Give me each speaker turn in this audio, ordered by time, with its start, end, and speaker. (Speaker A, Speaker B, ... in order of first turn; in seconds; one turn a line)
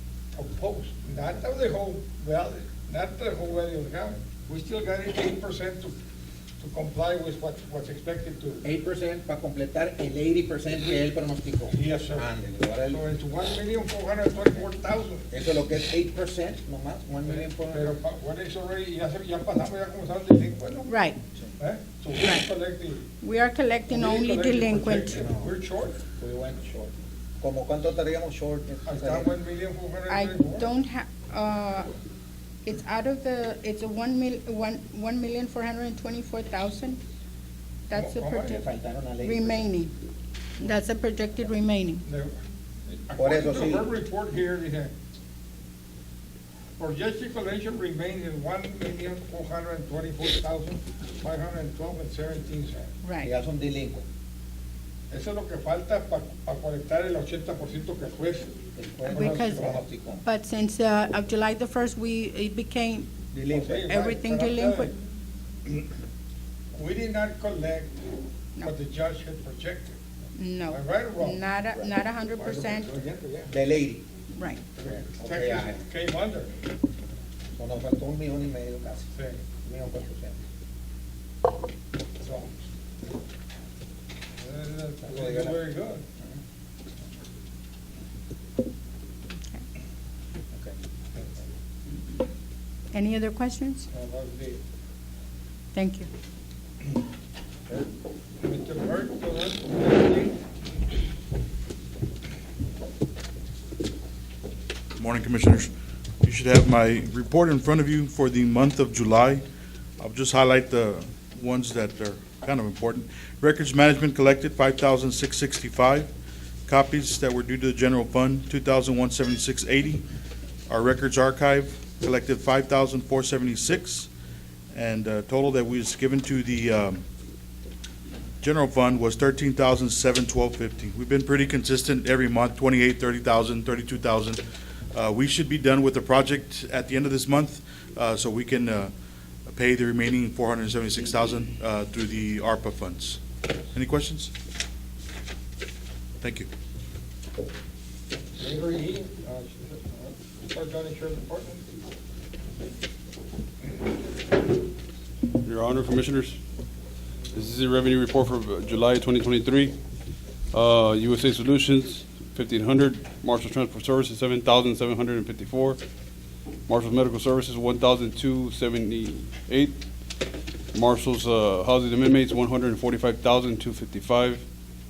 Speaker A: 0.3-6.0
Speaker A: 6.6-8.6
Speaker B: 8.6-13.0
Speaker A: 11.7-12.3
Speaker A: 12.8-15.3
Speaker B: 15.3-18.0
Speaker A: 17.2-20.9
Speaker C: 20.9-21.2
Speaker A: 21.6-23.1
Speaker C: 22.2-22.5
Speaker C: 23.2-25.2
Speaker A: 23.9-26.0
Speaker B: 25.1-25.5
Speaker B: 26.2-29.3
Speaker A: 28.8-30.7
Speaker C: 30.1-31.9
Speaker C: 32.6-37.0
Speaker C: 37.9-38.6
Speaker A: 37.9-38.5
Speaker B: 38.5-39.7
Speaker C: 39.2-39.9
Speaker C: 40.6-42.0
Speaker A: 42.0-44.9
Speaker B: 43.2-43.9
Speaker A: 46.8-52.9
Speaker C: 53.0-53.3
Speaker B: 53.2-54.0
Speaker A: 55.1-58.5
Speaker B: 58.7-60.2
Speaker C: 59.1-63.1
Speaker A: 59.1-59.8
Speaker B: 63.3-63.8
Speaker A: 63.5-64.9
Speaker C: 63.8-64.9
Speaker A: 66.7-70.0
Speaker C: 70.3-72.9
Speaker A: 70.7-71.4
Speaker A: 72.4-73.5
Speaker B: 73.5-74.0
Speaker C: 74.3-74.6
Speaker A: 74.7-76.5
Speaker B: 74.8-75.8
Speaker B: 77.5-79.1
Speaker A: 79.1-79.4
Speaker B: 79.6-80.4
Speaker A: 82.2-82.6
Speaker A: 84.4-86.0
Speaker B: 85.0-85.6
Speaker C: 89.3-89.6
Speaker C: 92.9-93.9
Speaker A: 93.9-94.6
Speaker C: 95.7-96.1
Speaker A: 98.4-100.4
Speaker D: 105.0-105.7
Speaker D: 106.2-109.4
Speaker D: 110.0-116.1
Speaker D: 116.7-120.0
Speaker D: 120.7-124.1
Speaker D: 124.7-127.0
Speaker D: 128.4-134.4
Speaker D: 134.9-138.9
Speaker D: 139.5-143.2
Speaker D: 143.7-144.3
Speaker D: 146.2-146.5
Speaker A: 148.4-151.6
Speaker E: 155.4-156.4
Speaker E: 157.3-159.8
Speaker E: 160.5-165.8
Speaker E: 166.7-174.5